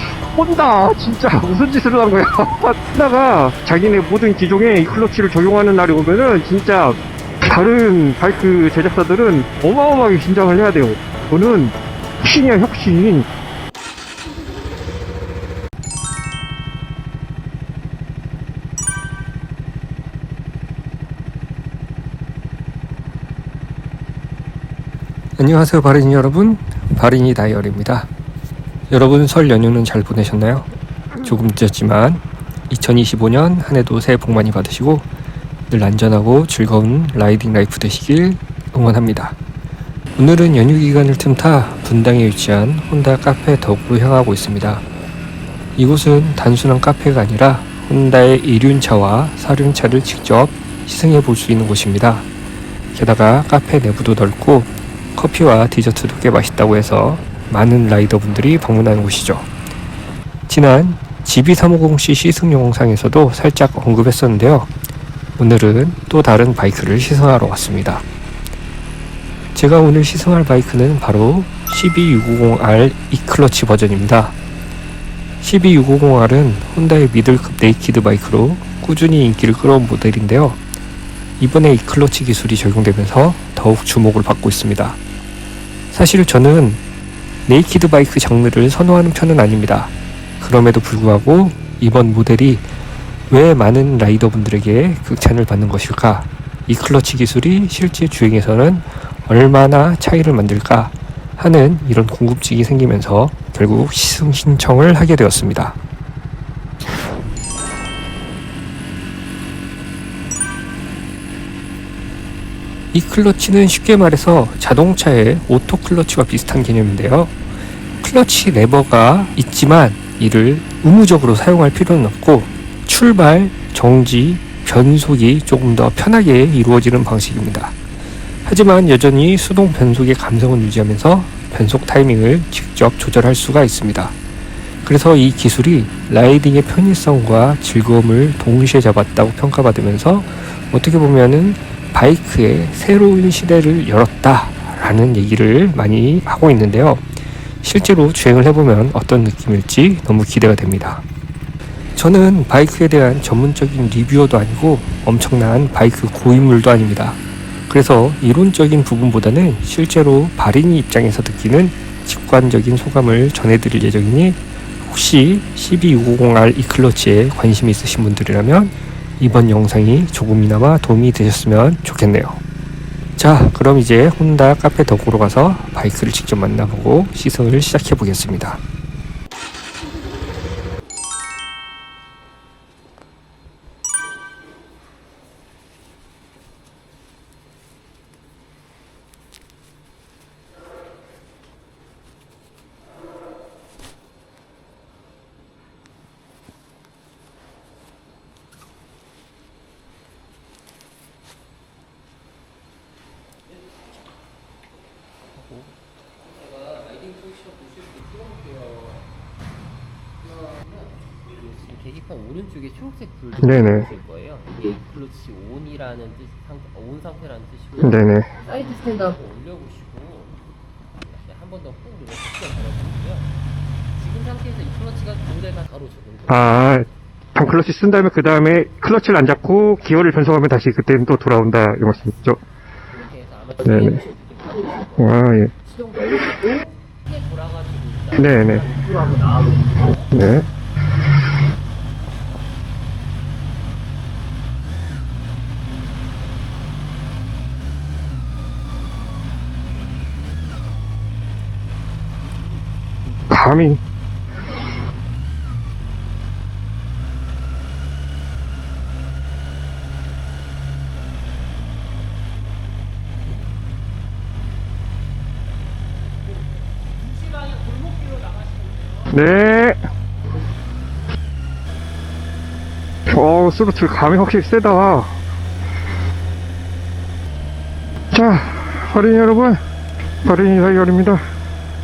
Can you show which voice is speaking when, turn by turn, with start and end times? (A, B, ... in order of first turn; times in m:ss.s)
0:00.3-0:13.3 A
0:25.4-0:28.1 B
0:28.9-0:30.7 B
0:31.2-0:35.0 B
0:35.7-0:39.4 B
0:40.2-0:44.8 B
0:45.8-0:52.2 B
0:52.9-0:59.5 B
1:00.5-1:04.7 B
1:05.4-1:08.0 B
1:09.6-1:14.3 B
1:15.4-1:20.6 B
1:21.4-1:25.0 B
1:25.9-1:26.8 B
1:27.5-1:32.6 B
1:33.3-1:45.8 B
1:52.9-1:57.3 B
1:58.0-2:07.7 B
2:08.4-2:14.1 B
2:14.8-2:27.0 B
2:27.6-2:31.0 B
2:32.0-2:37.2 B
2:37.7-2:52.4 B
2:53.2-2:58.6 B
3:25.3-3:29.0 C
3:30.2-3:40.4 C
3:33.4-3:33.9 A
3:37.8-3:38.3 A
3:41.0-3:43.3 C
3:43.9-3:46.8 C
3:46.3-3:52.4 A
3:52.9-3:54.9 C
3:53.6-3:54.0 A
3:54.8-3:55.5 A
3:55.6-3:59.0 C
3:58.2-3:58.8 A
3:59.6-4:00.1 C
4:00.1-4:00.4 A
4:13.3-4:13.8 A
4:26.4-4:29.1 C
4:29.1-4:29.8 A
4:33.1-4:35.1 A
4:38.1-4:39.6 A
4:40.2-4:41.2 A